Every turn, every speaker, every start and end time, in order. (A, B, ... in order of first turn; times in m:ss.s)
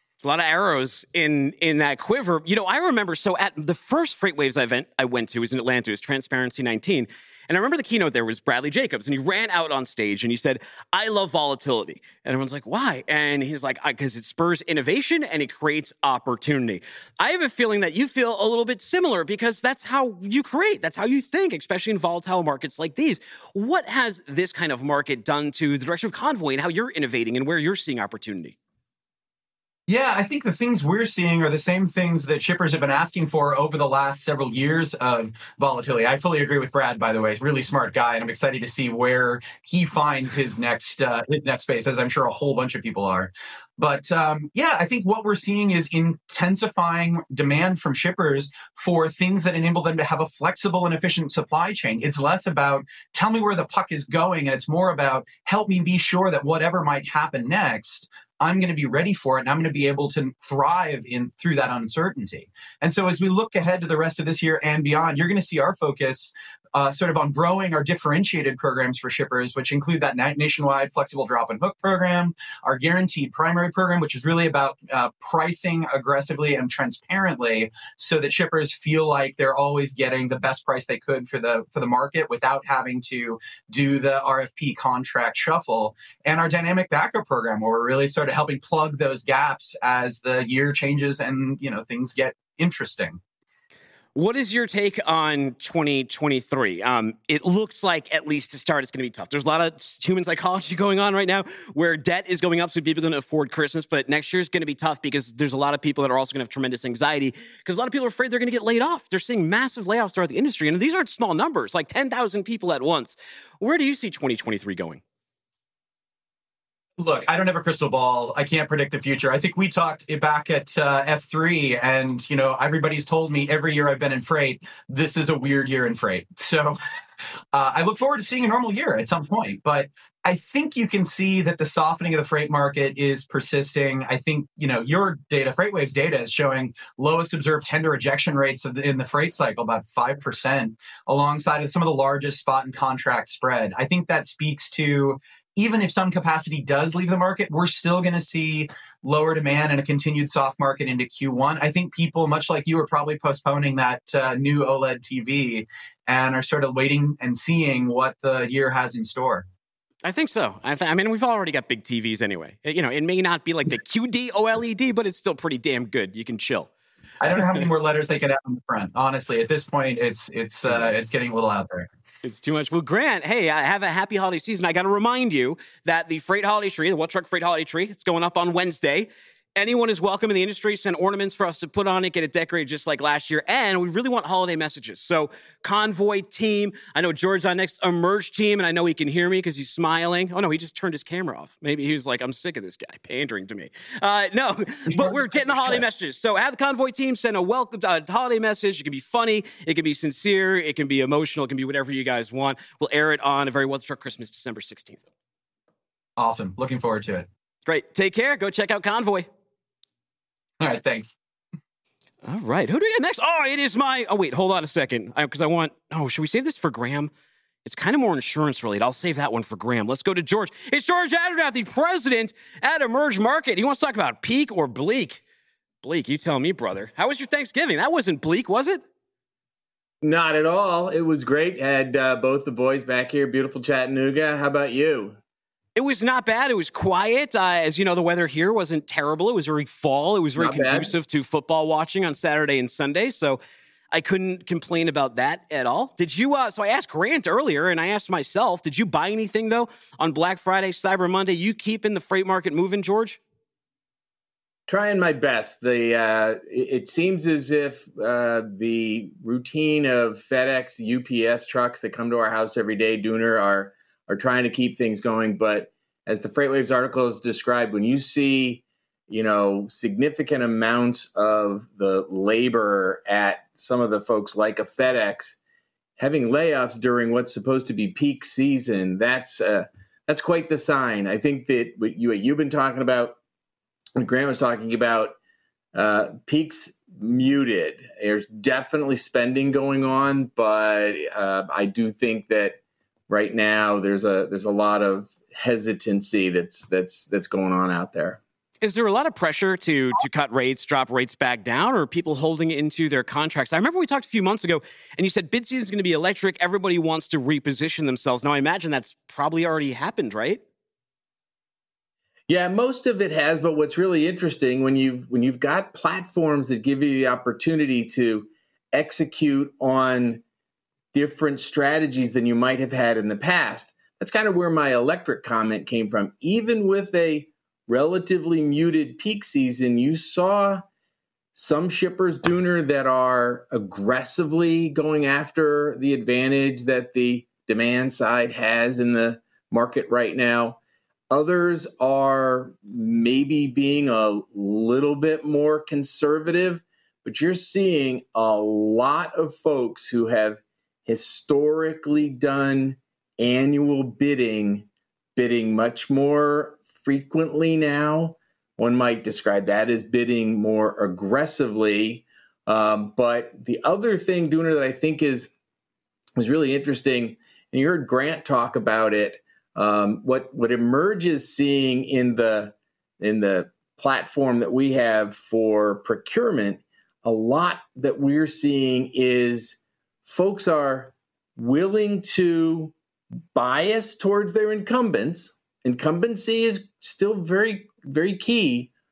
0:00.2-0:28.6 A
0:29.9-1:33.2 B
1:34.2-1:55.0 A
1:57.0-2:06.8 B
2:07.5-2:39.5 B
2:40.0-2:46.7 A
2:47.2-2:51.9 B
2:52.2-3:25.0 A
3:14.9-3:15.8 B
3:26.2-3:27.3 B
3:27.7-3:29.3 A
3:30.6-3:31.2 B
3:32.2-3:37.1 A
3:37.6-3:45.2 A
3:45.8-3:48.8 A
3:50.0-3:55.2 C
3:55.8-4:03.4 A
4:00.4-4:00.9 C
4:03.9-4:13.2 A
4:14.7-4:35.4 C
4:36.0-4:43.2 C
4:44.0-4:45.2 C
4:45.7-4:58.2 C
4:58.6-5:10.4 A
5:12.3-5:20.2 C
5:20.9-5:30.7 C
5:31.4-5:40.6 C
5:41.1-6:05.3 C
6:06.2-6:22.7 C
6:23.3-6:28.7 C